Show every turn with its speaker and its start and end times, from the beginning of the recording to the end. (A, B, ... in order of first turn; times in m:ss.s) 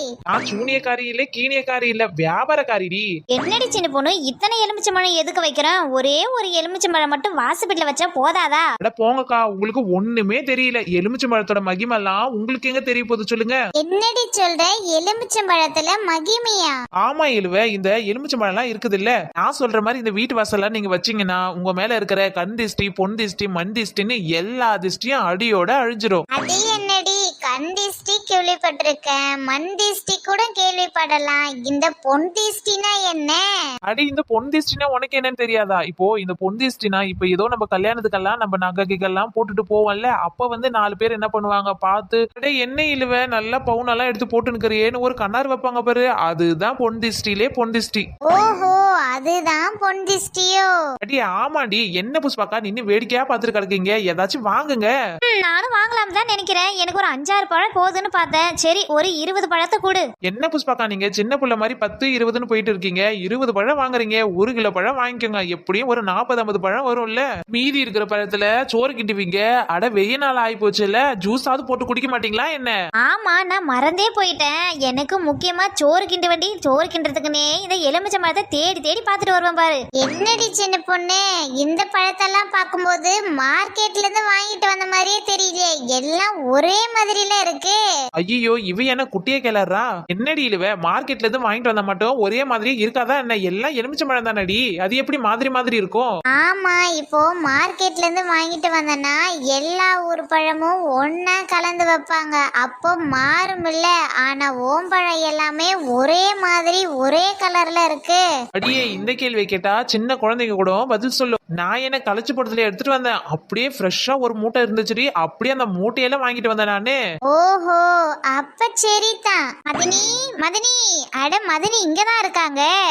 0:00.3-0:03.1 A
0:03.3-0:08.7 B
0:08.8-0:13.6 A
0:13.8-0:16.8 C
0:17.0-0:26.2 A
0:26.4-0:33.4 C
0:33.9-0:48.0 A
0:48.3-0:50.7 C
0:51.0-0:54.9 A
0:55.2-1:00.0 B
1:00.3-1:12.7 A
1:13.0-1:19.8 B
1:20.0-1:27.8 C
1:28.2-1:36.1 A
1:36.4-1:48.2 C
1:48.6-1:57.0 A
1:57.3-2:02.7 C